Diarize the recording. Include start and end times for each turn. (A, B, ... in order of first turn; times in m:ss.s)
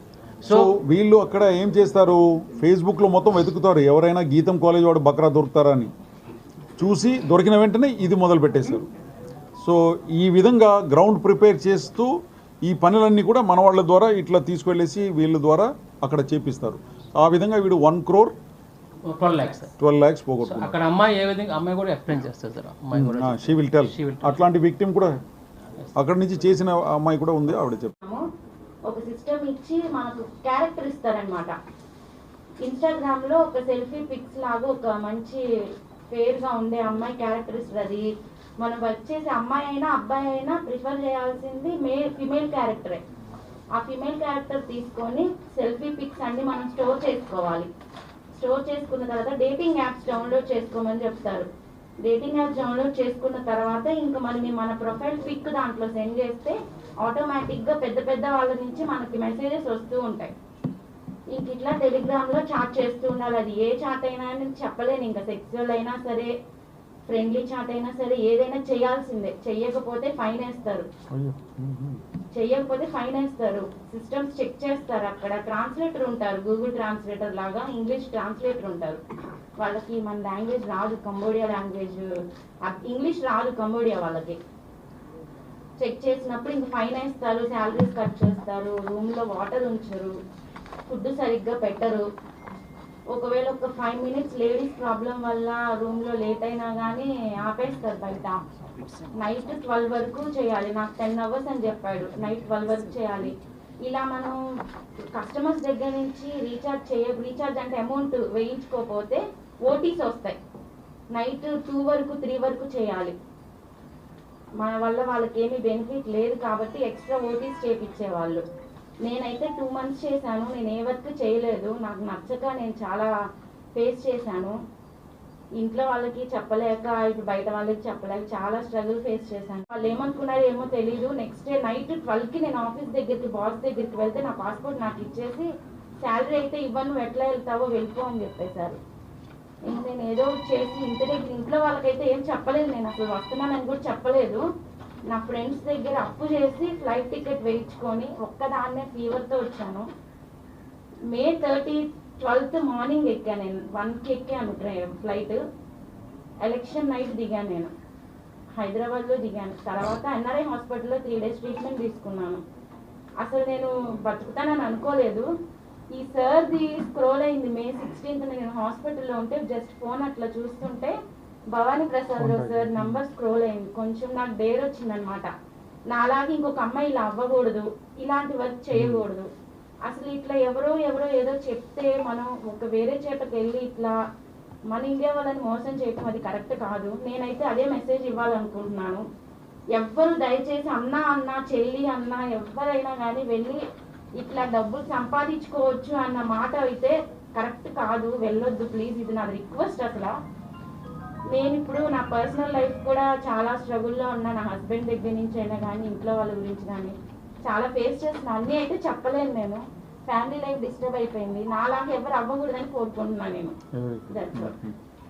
0:00.4-0:00.7 A
0:00.5-0:05.9 B
0:06.8-0:08.9 B
0:09.6-0:18.3 B
0:19.1-0:19.7 A
0:19.8-0:20.8 B
0:20.4-0:24.4 A
0:22.9-0:25.2 B
0:26.0-0:27.9 B
0:28.0-0:28.3 C
0:28.9-0:31.5 C
0:32.6-0:35.4 C
0:36.1-0:38.1 C
0:38.6-0:43.0 C
0:43.8-0:47.7 C
0:48.4-0:51.5 C
0:52.0-1:00.3 C
1:01.3-1:06.3 C
1:07.1-1:10.9 C
1:11.1-1:12.0 B
1:12.3-1:19.0 C
1:19.6-1:22.1 C
1:22.6-1:24.4 C
1:25.8-1:30.1 C
1:30.9-1:32.0 C
1:33.1-1:38.4 C
1:39.2-1:44.4 C
1:45.2-1:50.4 C
1:51.1-1:53.1 C
1:54.6-1:58.4 C
1:59.0-2:03.1 C
2:03.8-2:04.5 C
2:05.6-2:15.5 C
2:16.0-2:18.8 C
2:19.7-2:24.4 C
2:25.1-2:29.8 C
2:31.1-2:35.4 C
2:36.4-2:37.7 C
2:38.6-2:42.4 C
2:43.2-2:45.3 C
2:46.0-2:50.9 C
2:51.5-2:55.3 C
2:52.2-2:53.0 B
2:55.9-2:59.3 C
2:58.8-2:59.0 B
2:59.9-3:04.0 C
3:04.7-3:09.0 C
3:09.8-3:13.6 C
3:14.2-3:20.1 C
3:21.3-3:26.9 C
3:27.5-3:33.5 C
3:33.8-3:34.7 B
3:34.1-3:34.6 C